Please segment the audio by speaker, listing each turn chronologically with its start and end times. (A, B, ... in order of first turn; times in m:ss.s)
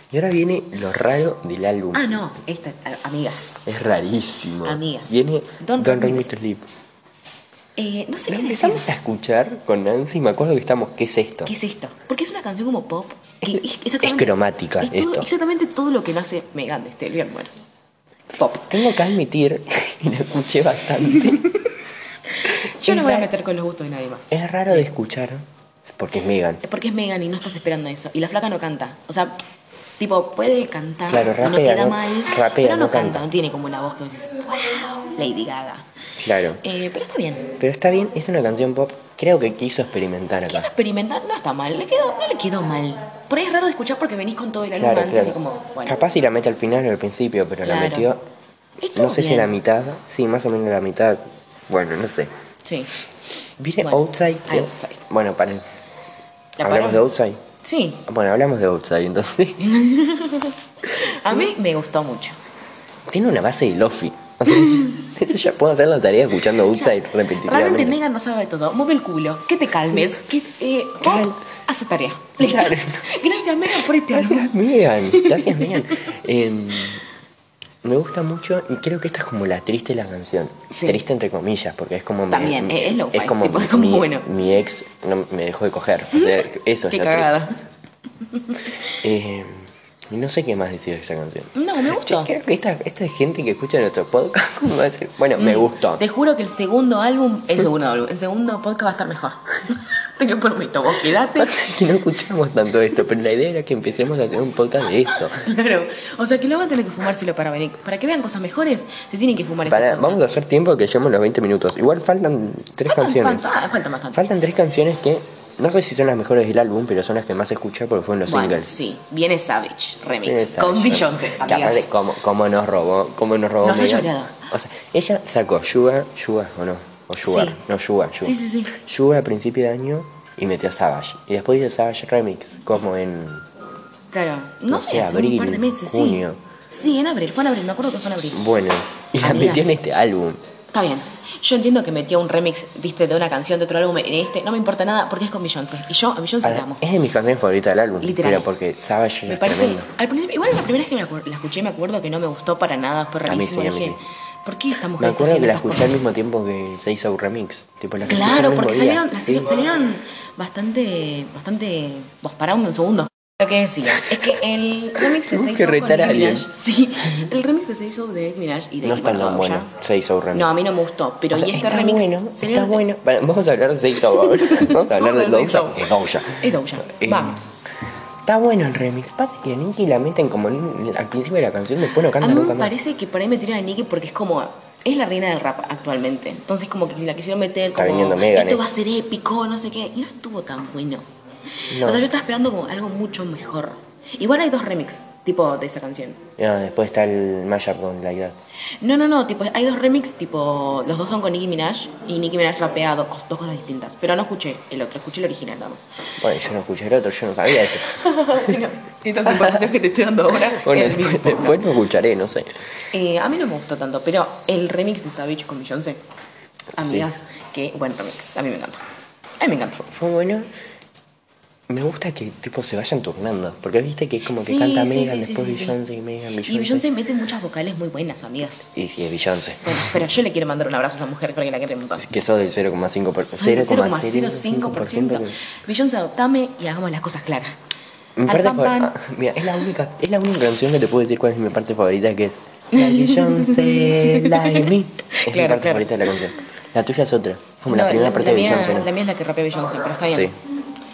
0:00.1-0:02.2 A
0:01.9-0:03.7 B
0:03.6-0:06.7 A
0:04.6-0:06.3 B
0:07.8-0:08.8 B
0:08.3-0:11.5 A
0:11.4-0:17.5 B
0:13.5-0:15.3 A
0:18.4-0:18.7 B
0:18.4-0:21.5 A
0:22.4-0:24.9 B
0:22.8-0:23.3 A
0:24.3-0:26.6 A
0:26.6-0:29.4 B
0:30.0-0:35.9 B
0:31.1-0:33.2 A
0:36.2-0:36.6 A
0:36.6-0:37.5 B
0:37.6-0:40.7 A
0:40.5-0:46.0 B
0:44.7-0:48.2 A
0:47.6-0:48.1 B
0:48.8-0:49.5 B
0:49.0-0:52.3 A
0:52.6-0:52.9 B
0:53.6-0:55.6 A
0:53.8-0:55.0 B
0:56.6-0:57.0 B
0:56.6-0:57.4 A
0:57.6-0:58.0 B
0:58.0-0:59.7 A
0:59.6-1:02.4 B
1:03.1-1:08.0 A
1:04.6-1:04.9 B
1:06.7-1:14.5 B
1:11.0-1:11.4 A
1:12.4-1:13.4 A
1:14.1-1:17.0 A
1:15.1-1:16.0 B
1:17.8-1:27.3 A
1:20.7-1:21.0 B
1:22.3-1:24.3 B
1:26.9-1:27.6 B
1:28.3-1:28.9 B
1:28.9-1:36.0 A
1:31.5-1:32.3 B
1:35.4-1:41.6 B
1:41.4-1:45.4 A
1:45.2-1:50.2 B
1:49.6-1:53.5 A
1:52.8-1:54.3 B
1:54.1-1:58.7 A
1:58.3-2:01.9 B
2:00.2-2:13.5 A
2:03.6-2:04.5 B
2:07.2-2:07.6 B
2:08.2-2:08.7 B
2:14.1-2:18.4 B
2:14.7-2:16.4 A
2:18.3-2:20.4 A
2:19.2-2:19.8 B
2:20.7-2:26.8 B
2:26.4-2:29.9 A
2:28.0-2:28.5 B
2:29.2-2:36.0 B
2:33.2-2:34.0 A
2:35.0-2:39.5 A
2:38.0-2:49.7 B
2:44.0-2:44.3 A
2:45.0-2:46.5 A
2:48.8-2:50.5 A
2:50.3-2:52.8 B
2:51.3-2:57.4 A
2:54.1-2:57.4 B
2:58.2-3:02.7 A
3:02.2-3:11.0 B
3:07.8-3:08.6 A
3:11.7-3:16.2 B
3:11.7-3:12.0 A
3:16.4-3:18.4 A
3:18.8-3:25.9 B
3:26.2-3:27.9 A
3:27.8-3:31.6 B
3:29.3-3:29.6 A
3:30.4-3:32.5 A
3:32.9-3:36.0 B
3:36.8-3:38.8 B
3:36.8-3:37.1 A
3:39.4-3:39.9 B
3:39.9-3:40.5 A
3:41.7-3:46.8 A
3:44.3-3:45.8 B
3:46.4-3:48.7 B
3:48.7-3:50.0 A
3:49.6-3:52.1 B
3:52.0-3:55.4 A
3:53.2-3:57.6 B
3:58.2-4:08.9 A
3:58.2-3:59.0 B
4:02.7-4:05.9 B
4:07.7-4:10.3 B
4:10.0-4:10.3 A